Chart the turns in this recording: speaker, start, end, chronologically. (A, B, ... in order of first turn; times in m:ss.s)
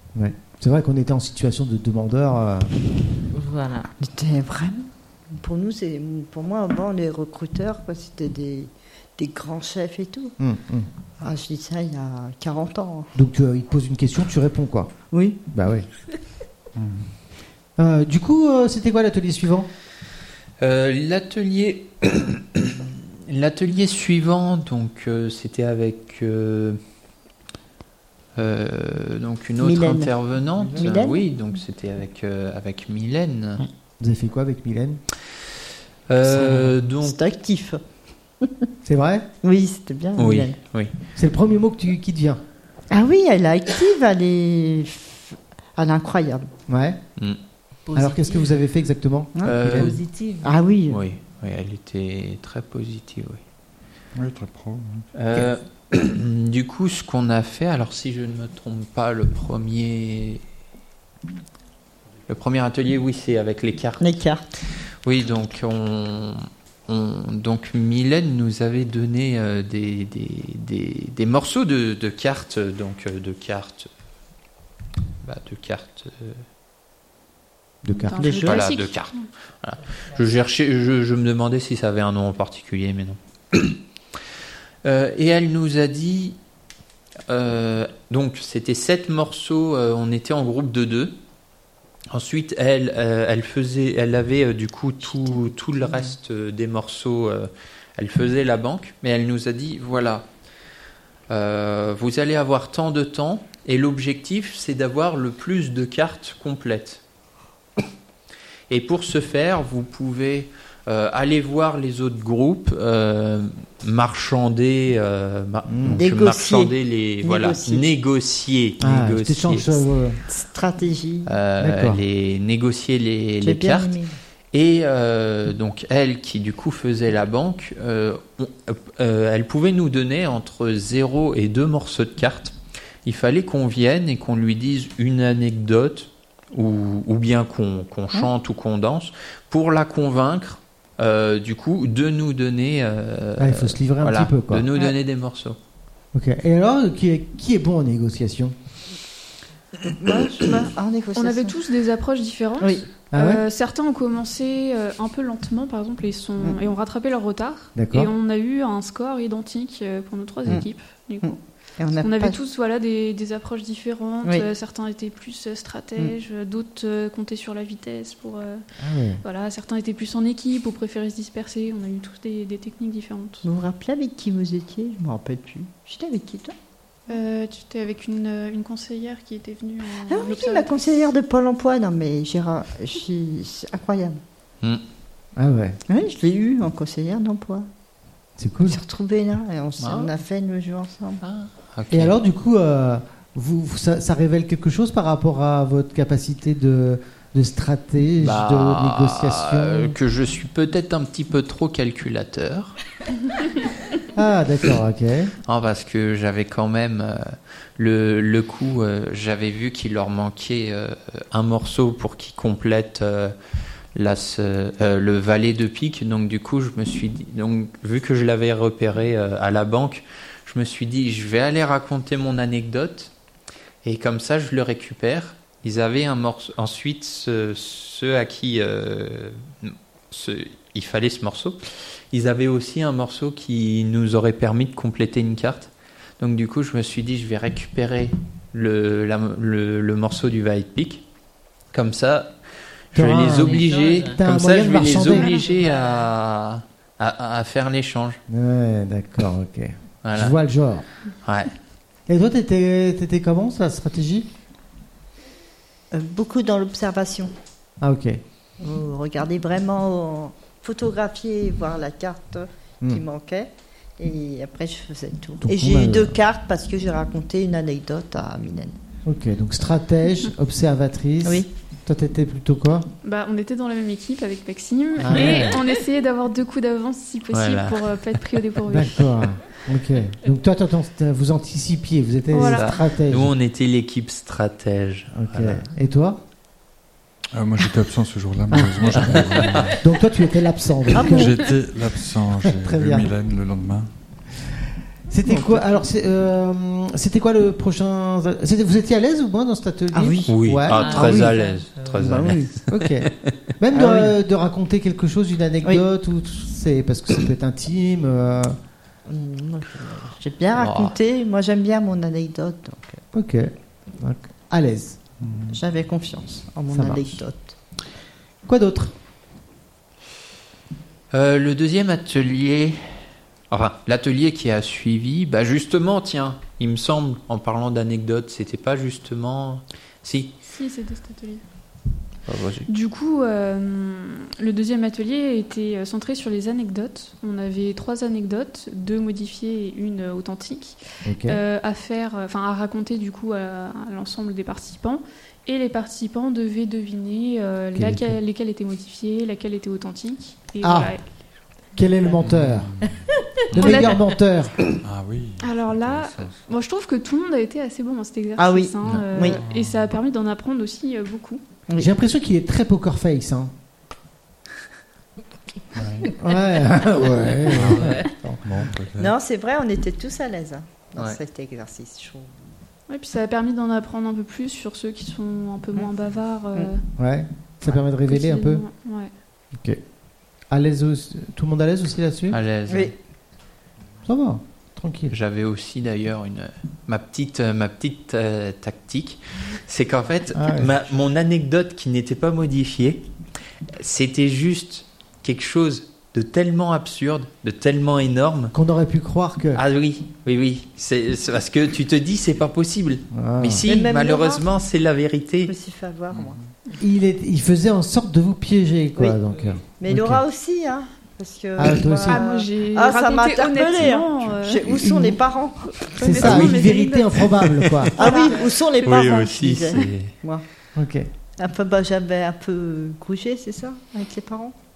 0:00.2-0:02.7 A
0:03.3-0:03.9 B
0:04.0-0:10.3 C
0:10.4-0:10.9 A
0:11.2-0:13.1 C
0:13.2-0:14.9 A
0:15.1-0:15.4 C
0:15.5-0:15.9 A
0:16.8-0:17.1 D
0:17.8-0:19.7 A
0:20.6-0:26.8 E
0:28.4-0:33.6 E
0:29.6-0:30.1 C
0:30.8-0:31.2 C
0:34.0-0:35.0 A
0:36.1-0:37.2 E
0:36.4-0:37.8 C
0:38.4-0:38.7 C
0:38.8-0:39.3 A
0:39.4-0:40.6 C
0:40.2-0:40.9 E
0:41.2-0:42.4 A
0:42.9-0:46.5 C
0:46.7-0:47.0 A
0:47.9-0:48.6 B
0:48.0-0:49.9 A
0:49.4-0:50.0 E
0:49.8-0:50.5 B
0:50.4-0:51.0 C
0:50.9-0:53.4 E
0:54.2-0:55.1 D
0:55.2-1:00.4 E
1:02.3-1:04.2 E
1:04.0-1:04.4 C
1:05.0-1:13.9 E
1:15.2-1:16.4 E
1:17.8-1:18.2 A
1:17.9-1:19.3 F
1:18.2-1:18.6 C
1:18.4-1:23.8 E
1:24.8-1:26.4 E
1:27.3-1:31.2 E
1:32.1-1:40.3 E
1:41.3-1:47.0 E
1:48.7-1:59.8 E
1:55.7-1:56.0 A
1:55.9-1:57.8 C
1:58.8-2:00.2 A
2:00.3-2:01.3 C
2:01.3-2:04.0 E
2:01.6-2:02.0 A
2:03.4-2:04.2 C
2:04.5-2:25.6 E
2:23.4-2:24.7 A
2:26.1-2:28.6 A
2:29.9-2:31.6 C
2:31.2-2:41.4 F
2:32.6-2:32.9 C
2:33.1-2:33.4 A
2:37.8-2:38.1 A
2:41.2-2:42.4 C
2:41.9-2:48.6 F
2:48.8-2:49.2 A
2:49.2-2:53.4 F
2:53.4-2:56.6 C
2:57.1-3:00.7 F
3:00.1-3:04.2 C
3:05.4-3:05.8 A
3:05.9-3:07.7 C
3:08.4-3:08.8 A
3:08.6-3:11.2 C
3:09.8-3:10.1 E
3:11.2-3:12.2 E
3:11.9-3:20.0 A
3:18.2-3:22.8 E
3:24.1-3:25.3 A
3:25.5-3:33.4 E
3:34.0-3:43.1 E
3:43.8-3:51.6 E
3:52.1-4:01.0 E
4:01.7-4:02.3 E
4:02.9-4:08.2 E
4:03.0-4:05.3 A
4:03.4-4:04.2 B
4:05.3-4:06.1 B
4:08.3-4:10.9 A
4:10.0-4:10.4 E
4:11.2-4:11.5 E
4:12.1-4:14.3 A
4:15.9-4:17.3 C
4:17.8-4:18.2 A
4:18.6-4:28.8 C
4:25.4-4:26.2 A
4:29.0-4:32.9 A
4:33.0-4:39.1 F
4:35.0-4:35.6 A
4:37.3-4:38.2 E
4:38.7-4:43.3 A
4:42.3-4:42.8 F
4:42.4-4:45.6 E
4:45.2-4:46.2 A
4:47.3-4:49.8 D
4:48.5-4:51.4 A
4:49.2-4:49.7 E
4:50.9-4:53.9 D
4:51.0-4:51.3 C
4:52.5-4:53.1 A
4:55.1-5:01.3 A
4:55.3-4:55.6 C
4:59.9-5:01.4 C
5:00.3-5:03.3 E
5:00.7-5:02.1 B
5:02.0-5:02.5 C
5:02.1-5:08.6 A
5:03.7-5:04.1 C
5:09.1-5:13.0 C
5:10.5-5:11.0 E
5:13.1-5:15.0 A
5:15.2-5:15.6 D
5:15.5-5:17.6 C
5:16.7-5:17.2 A
5:18.5-5:18.9 A
5:21.1-5:23.0 E
5:23.5-5:30.3 E
5:30.5-5:31.4 F
5:32.3-5:32.7 E
5:32.7-5:51.1 F
5:41.0-5:41.4 A
5:47.8-5:48.2 A
5:50.6-5:50.9 A
5:51.7-5:52.7 A
5:52.2-5:53.8 D
5:53.5-5:54.6 A
5:53.6-5:54.1 F
5:54.8-5:56.5 D
5:55.4-6:01.4 F
5:58.4-5:59.4 C
5:59.4-5:59.9 D
6:01.8-6:03.5 A
6:05.7-6:06.1 D
6:06.1-6:08.4 A
6:07.5-6:09.1 D
6:09.0-6:12.4 C
6:12.9-6:16.8 F
6:17.0-6:18.6 A
6:18.1-6:19.1 F
6:19.5-6:19.8 A
6:20.5-6:22.4 A
6:22.3-6:23.0 E
6:22.7-6:22.9 C
6:24.1-6:25.1 A
6:25.1-6:33.0 E
6:30.3-6:30.8 A
6:33.8-6:38.6 E
6:38.5-6:39.6 A
6:39.6-6:45.5 E
6:43.1-6:43.7 A
6:43.6-6:44.4 C
6:45.5-6:46.4 C
6:46.1-6:46.5 D
6:46.8-6:50.2 A
6:49.8-6:55.9 C
6:51.6-6:52.2 A
6:52.1-6:54.6 F
6:54.6-6:55.2 A
6:55.8-6:57.2 F
6:56.0-6:58.0 A
6:56.2-6:56.5 E
6:57.2-6:58.2 E
6:58.0-7:00.4 C
6:58.0-6:58.3 F
6:58.8-7:00.2 E
7:00.8-7:01.1 A
7:01.4-7:04.6 C